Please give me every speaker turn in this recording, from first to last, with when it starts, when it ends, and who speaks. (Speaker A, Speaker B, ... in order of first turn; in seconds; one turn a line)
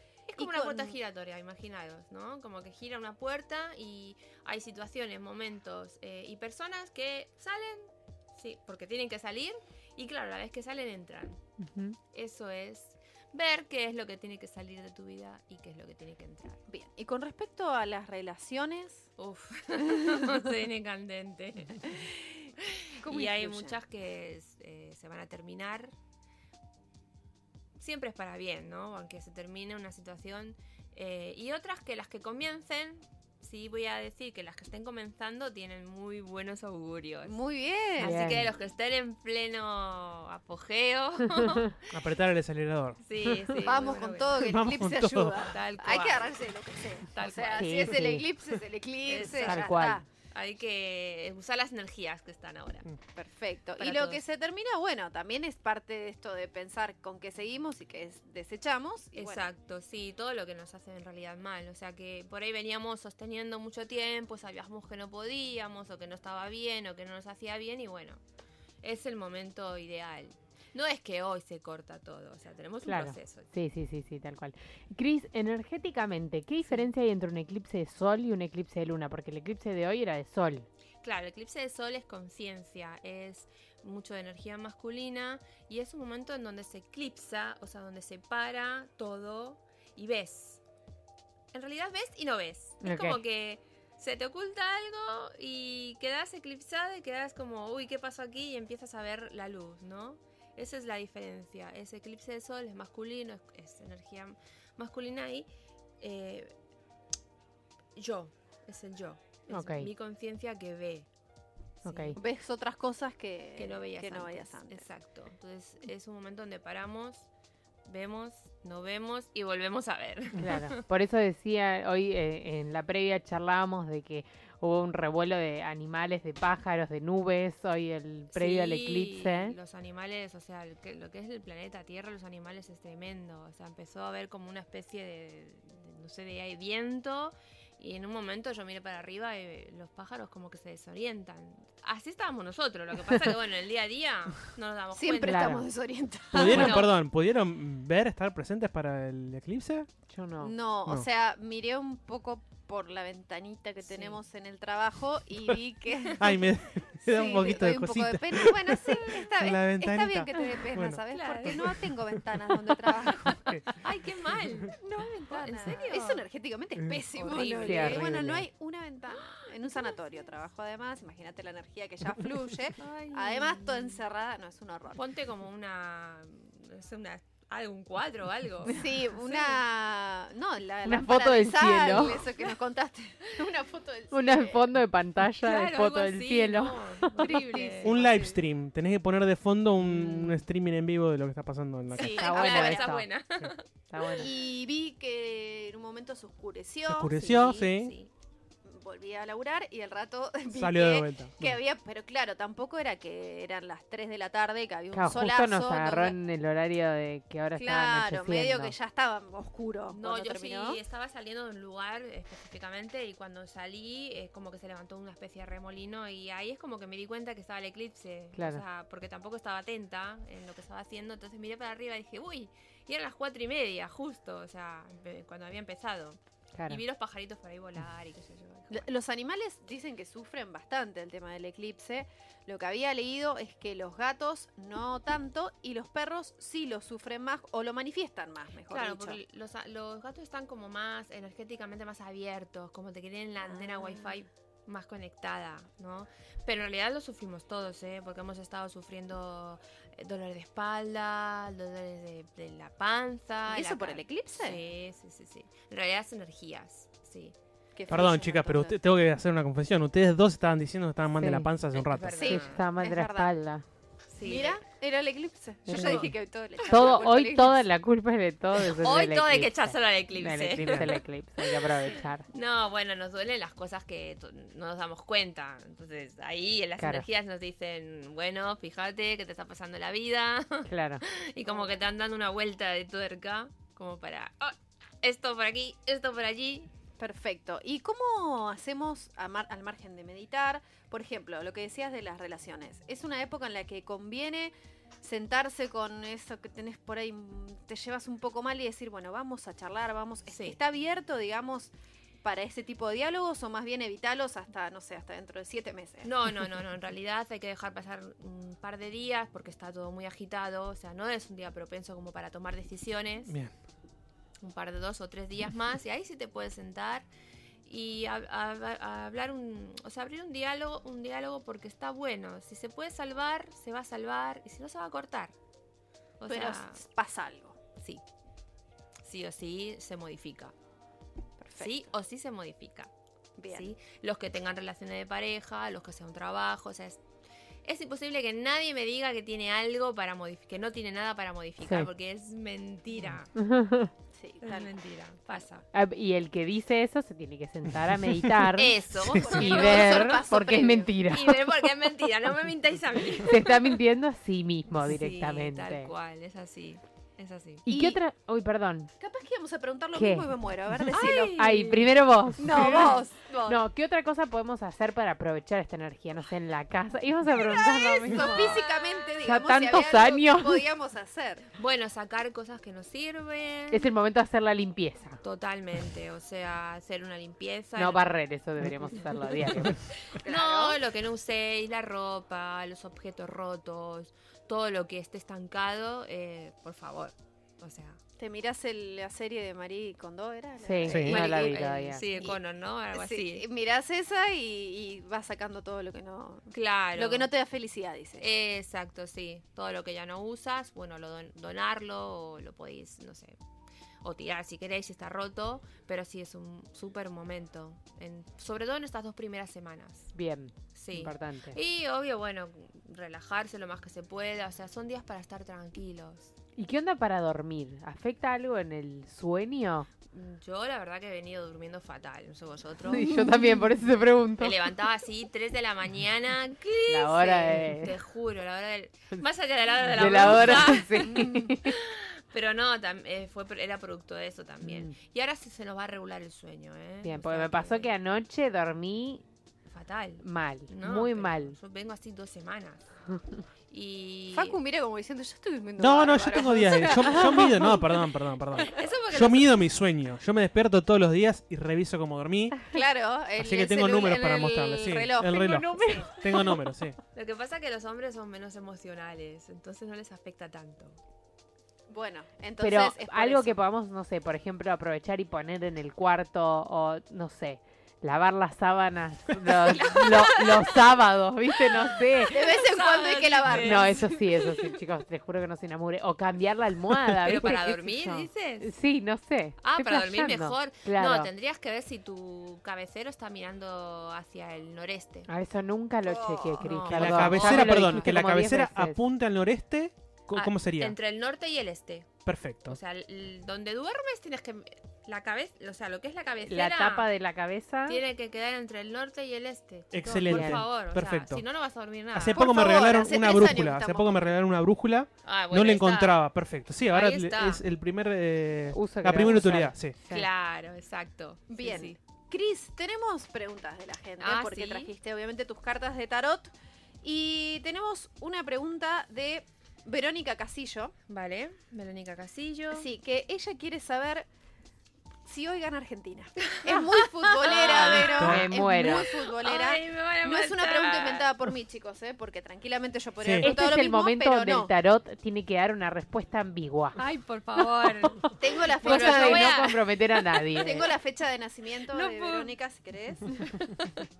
Speaker A: 0.3-11.4
Speaker B: 0.4-1.0
Speaker C: 11.6-12.0
Speaker A: 12.1-16.6
Speaker B: 16.7-19.1
Speaker A: 19.2-22.1
Speaker B: 21.9-22.4
Speaker A: 22.6-25.9
Speaker B: 23.0-23.8
Speaker A: 27.8-37.4
Speaker B: 37.2-38.2
Speaker A: 38.0-41.8
Speaker C: 38.0-38.5
Speaker D: 41.9-43.0
Speaker A: 43.0-44.5
Speaker B: 43.6-50.0
Speaker D: 44.4-45.5
Speaker A: 45.5-46.4
Speaker A: 47.1-47.9
Speaker C: 47.6-48.3
Speaker A: 49.1-52.9
Speaker C: 49.4-50.0
Speaker B: 53.2-59.5
Speaker A: 53.8-54.2
Speaker A: 59.1-68.2
Speaker A: 68.8-73.5
Speaker C: 72.8-80.7
Speaker A: 81.0-90.6
Speaker A: 91.5-105.5
Speaker C: 92.8-93.2
Speaker A: 106.0-106.5
Speaker A: 108.0-111.1
Speaker C: 109.5-109.9
Speaker A: 111.8-112.2
Speaker C: 111.8-112.2
Speaker B: 112.2-114.9
Speaker A: 113.6-117.3
Speaker A: 117.9-120.7
Speaker C: 120.4-129.6
Speaker A: 128.3-145.6
Speaker B: 144.9-146.9
Speaker C: 145.2-145.6
Speaker D: 146.3-149.9
Speaker A: 146.4-146.9
Speaker C: 150.1-150.5
Speaker B: 150.4-156.4
Speaker A: 153.9-154.2
Speaker D: 156.2-162.2
Speaker B: 157.1-163.4
Speaker A: 161.1-161.8
Speaker D: 163.1-163.6
Speaker A: 163.7-164.8
Speaker B: 164.8-175.0
Speaker A: 165.3-166.2
Speaker A: 167.1-168.1
Speaker C: 167.6-168.5
Speaker A: 169.1-170.0
Speaker A: 172.8-174.0
Speaker A: 174.9-179.6
Speaker B: 178.7-184.6
Speaker C: 180.8-182.2
Speaker C: 184.1-187.3
Speaker A: 185.4-188.0
Speaker B: 187.2-188.4
Speaker D: 187.8-192.1
Speaker B: 191.9-192.9
Speaker A: 192.0-193.7
Speaker C: 192.0-193.1
Speaker C: 193.9-194.3
Speaker B: 194.2-197.1
Speaker D: 196.9-198.0
Speaker A: 197.1-198.1
Speaker B: 198.7-206.1
Speaker D: 200.5-201.6
Speaker C: 204.9-208.7
Speaker B: 207.6-210.8
Speaker A: 209.9-228.9
Speaker C: 218.3-218.6
Speaker C: 226.5-226.8
Speaker B: 228.7-239.2
Speaker A: 238.7-257.4
Speaker B: 243.4-244.1
Speaker B: 253.5-254.6
Speaker B: 257.8-258.8
Speaker D: 257.9-262.3
Speaker C: 261.2-261.5
Speaker A: 261.7-262.6
Speaker B: 262.2-263.3
Speaker C: 262.2-263.6
Speaker A: 264.1-264.6
Speaker B: 264.2-267.6
Speaker C: 265.7-266.1
Speaker A: 265.7-266.1
Speaker A: 266.6-266.9
Speaker C: 266.7-272.2
Speaker A: 268.6-286.7
Speaker D: 270.7-270.9
Speaker C: 276.8-277.1
Speaker C: 280.7-281.0
Speaker B: 287.0-301.7
Speaker A: 300.3-300.6
Speaker B: 302.2-306.1
Speaker A: 306.0-313.3
Speaker D: 313.3-313.5
Speaker A: 314.4-317.1
Speaker A: 317.6-325.3
Speaker A: 326.2-326.8
Speaker B: 326.3-327.6
Speaker A: 327.8-328.0
Speaker A: 329.0-330.5
Speaker B: 331.4-331.9
Speaker A: 331.6-332.9
Speaker B: 333.4-333.7
Speaker A: 333.5-337.0
Speaker A: 337.6-343.3
Speaker C: 341.6-341.9
Speaker C: 343.4-343.9
Speaker B: 344.1-344.7
Speaker A: 344.4-345.6
Speaker C: 345.7-348.8
Speaker A: 348.6-353.8
Speaker D: 348.9-349.3
Speaker B: 349.1-350.9
Speaker C: 349.3-351.6
Speaker C: 353.2-355.9
Speaker A: 354.9-357.6
Speaker C: 357.6-358.9
Speaker B: 357.7-358.0
Speaker B: 359.0-361.5
Speaker C: 359.9-360.3
Speaker A: 360.9-361.9
Speaker C: 361.4-368.6
Speaker B: 362.4-363.6
Speaker A: 362.5-363.0
Speaker B: 367.4-371.5
Speaker A: 368.2-369.1
Speaker C: 369.2-370.6
Speaker A: 371.6-373.9
Speaker C: 373.7-375.2
Speaker A: 375.2-378.0
Speaker C: 377.8-379.8
Speaker A: 380.1-388.0
Speaker B: 380.2-380.8
Speaker B: 388.2-391.6
Speaker C: 390.6-392.0
Speaker D: 390.9-391.2
Speaker A: 390.9-393.5
Speaker B: 392.9-398.3
Speaker A: 396.5-397.3
Speaker A: 398.2-403.4
Speaker A: 404.0-410.1
Speaker C: 410.1-411.6
Speaker A: 410.7-416.3
Speaker C: 416.6-419.9
Speaker A: 420.1-423.2
Speaker C: 422.9-424.6
Speaker B: 423.2-423.5
Speaker A: 424.4-437.9
Speaker C: 426.9-427.9
Speaker C: 429.9-431.7
Speaker B: 431.0-431.5
Speaker C: 434.6-435.0
Speaker C: 437.0-439.2
Speaker A: 439.7-442.9
Speaker C: 440.2-441.6
Speaker A: 443.7-444.6
Speaker B: 444.3-447.8
Speaker D: 445.8-452.8
Speaker A: 448.8-449.6
Speaker B: 452.7-456.4
Speaker D: 453.4-457.0
Speaker C: 455.3-456.1
Speaker A: 457.1-461.0
Speaker B: 461.9-463.6
Speaker C: 462.6-472.4
Speaker B: 469.8-470.4
Speaker A: 471.9-474.1
Speaker B: 472.3-474.8
Speaker C: 473.5-481.3
Speaker A: 477.1-478.7
Speaker A: 479.6-485.3
Speaker C: 485.3-489.0
Speaker B: 486.1-486.7
Speaker A: 486.6-488.0
Speaker D: 486.9-490.9
Speaker A: 490.3-492.1
Speaker D: 492.3-492.8
Speaker A: 492.7-497.1
Speaker C: 496.4-498.0
Speaker A: 497.9-502.6
Speaker D: 499.9-501.4
Speaker C: 500.3-500.6
Speaker D: 502.1-510.0
Speaker B: 502.3-504.4
Speaker A: 505.2-506.2
Speaker A: 506.9-507.6
Speaker C: 508.7-510.3
Speaker A: 510.1-512.0
Speaker B: 511.5-516.5
Speaker A: 514.2-514.9
Speaker B: 517.0-520.9
Speaker A: 521.1-522.9
Speaker B: 522.7-524.3
Speaker B: 525.3-534.7
Speaker A: 526.4-528.3
Speaker C: 527.5-529.1
Speaker D: 528.0-528.5
Speaker A: 528.9-531.3
Speaker D: 533.2-533.5
Speaker C: 533.4-537.0
Speaker A: 537.0-539.9
Speaker B: 538.4-539.6
Speaker C: 538.8-540.9
Speaker A: 540.4-541.0
Speaker B: 540.5-543.5
Speaker A: 541.9-542.5
Speaker A: 543.4-544.1